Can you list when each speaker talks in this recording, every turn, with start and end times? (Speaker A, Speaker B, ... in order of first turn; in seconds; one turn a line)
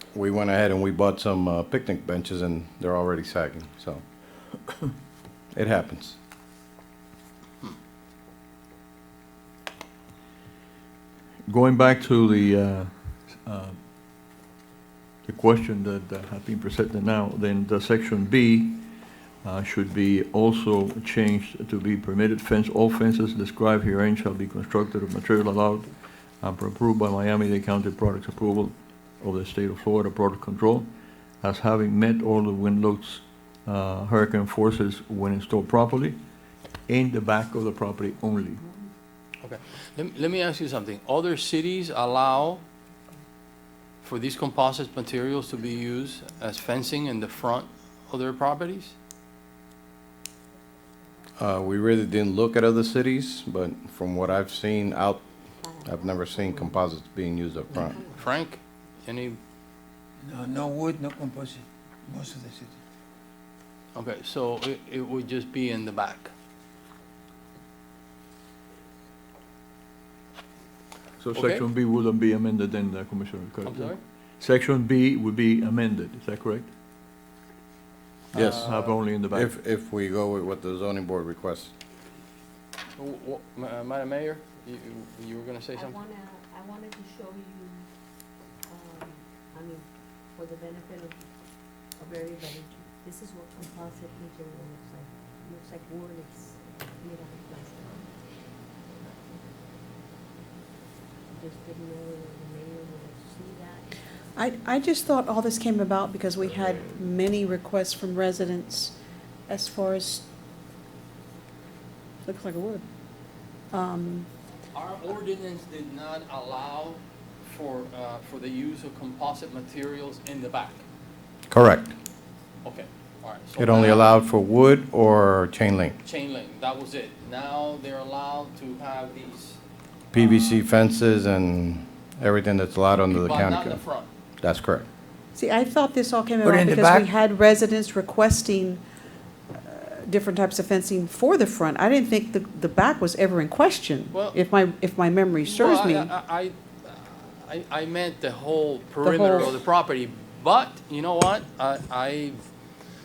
Speaker A: 0.1-4.0
Speaker A: 5.5-6.2
Speaker B: 11.5-13.8
Speaker B: 15.3-25.9
Speaker B: 26.4-30.9
Speaker B: 31.4-36.2
Speaker B: 36.9-38.6
Speaker C: 39.4-42.6
Speaker C: 44.0-49.0
Speaker A: 51.4-55.2
Speaker D: 55.6-56.8
Speaker A: 55.8-58.1
Speaker D: 57.7-58.3
Speaker C: 58.1-59.4
Speaker E: 60.2-62.7
Speaker C: 64.0-66.3
Speaker B: 71.2-76.7
Speaker C: 71.3-71.6
Speaker C: 73.7-74.0
Speaker B: 78.3-79.5
Speaker A: 78.3-78.7
Speaker C: 78.4-79.0
Speaker A: 79.3-81.7
Speaker C: 83.0-86.0
Speaker D: 85.8-87.9
Speaker D: 88.7-91.2
Speaker D: 92.0-98.1
Speaker D: 101.3-103.9
Speaker F: 104.4-109.0
Speaker F: 109.5-110.3
Speaker F: 112.2-112.8
Speaker F: 113.7-114.3
Speaker C: 114.7-120.8
Speaker A: 121.5-122.0
Speaker C: 122.6-124.1
Speaker A: 123.6-126.0
Speaker C: 126.0-129.6
Speaker A: 130.1-133.8
Speaker C: 130.1-130.7
Speaker C: 133.1-134.1
Speaker A: 134.4-134.9
Speaker F: 135.3-138.8
Speaker E: 136.4-137.1
Speaker F: 139.6-146.1
Speaker C: 145.4-152.5
Speaker F: 149.0-149.6